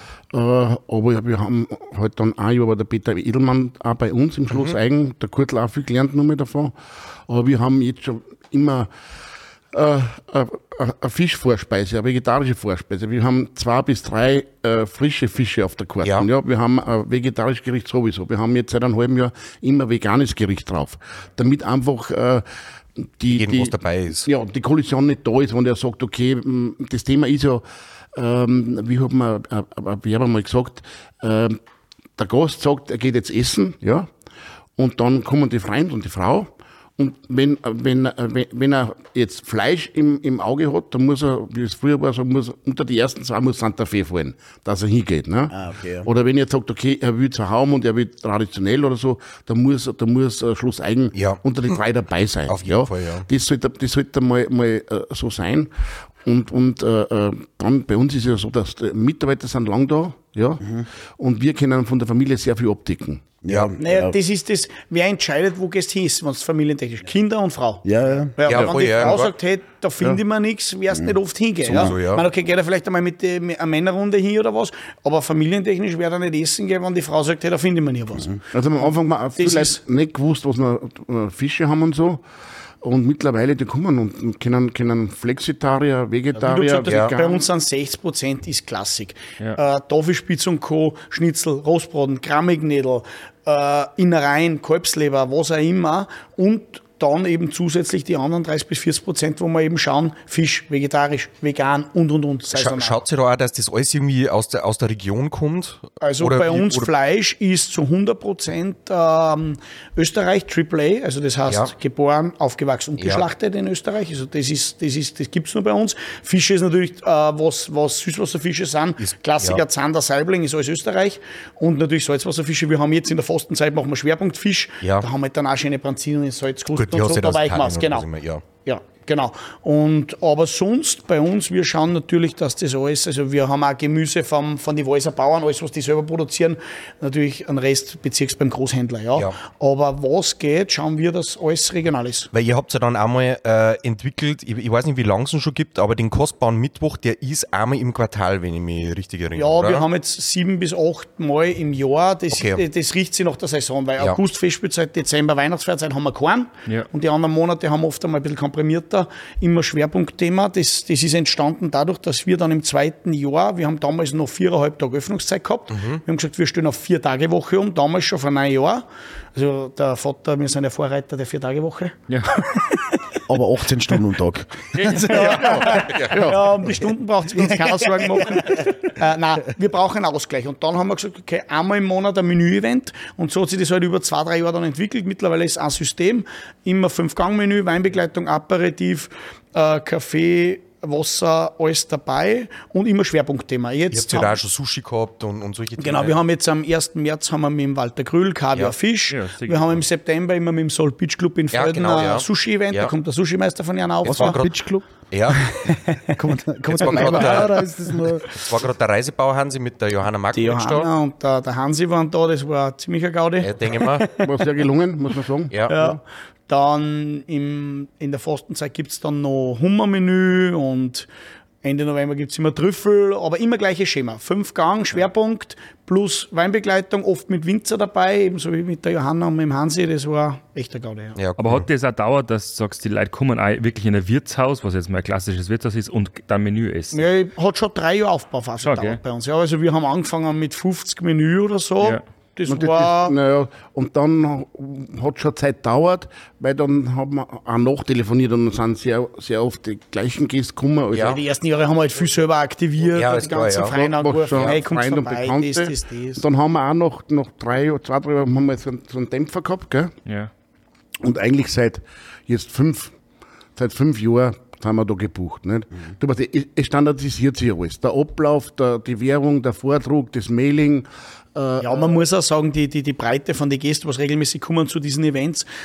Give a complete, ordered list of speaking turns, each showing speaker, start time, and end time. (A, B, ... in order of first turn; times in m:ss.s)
0:00.3-0:06.7 A
0:07.3-0:08.9 A
0:09.7-0:22.4 A
0:23.0-0:27.6 A
0:23.3-0:24.3 B
0:28.1-0:31.6 A
0:32.2-0:34.1 A
0:34.8-0:55.7 A
0:45.5-0:46.1 C
0:51.1-0:51.4 B
0:52.5-0:53.3 B
0:56.2-1:03.4 A
1:00.6-1:00.9 C
1:03.4-1:04.2 C
1:03.8-1:07.8 D
1:07.8-1:08.3 C
1:08.4-1:18.4 D
1:08.4-1:09.3 B
1:08.5-1:09.2 A
1:11.6-1:12.2 B
1:18.5-1:22.2 A
1:19.4-1:19.8 D
1:22.8-1:27.4 A
1:26.4-1:43.0 D
1:26.9-1:27.1 B
1:42.5-1:46.9 B
1:46.0-2:08.1 D
1:53.0-1:53.2 B
1:59.0-1:59.6 B
2:06.8-2:08.4 B
2:08.6-2:22.3 D
2:22.3-2:29.9 B
2:29.3-2:53.0 D
2:32.3-2:32.6 B
2:45.7-2:46.0 B
2:52.1-2:52.3 E
2:53.3-2:55.7 C
2:54.7-2:55.6 E
2:55.0-3:14.3 D
2:55.4-2:56.6 A
2:55.9-2:56.2 B
2:57.4-2:58.7 C
3:13.9-3:16.2 B
3:15.8-3:24.4 D
3:19.1-3:19.8 E
3:21.5-3:22.9 B
3:24.0-3:24.6 B
3:24.0-3:28.3 C
3:25.1-3:25.5 B
3:26.7-3:27.6 B
3:26.8-3:27.4 D
3:28.2-3:30.9 B
3:30.3-3:34.3 D
3:33.4-3:34.1 B
3:34.2-3:36.0 A
3:35.7-3:41.1 D
3:41.6-3:51.2 D
3:51.4-3:57.0 E
3:56.9-4:03.2 D
3:58.6-3:59.0 E
4:02.5-4:11.2 A
4:10.9-4:11.2 B
4:11.0-4:16.2 D
4:12.9-4:13.7 B
4:13.8-4:20.0 A
4:14.3-4:14.6 B
4:20.0-4:20.3 E
4:21.0-4:22.9 A
4:23.6-4:31.9 A
4:31.6-4:35.5 D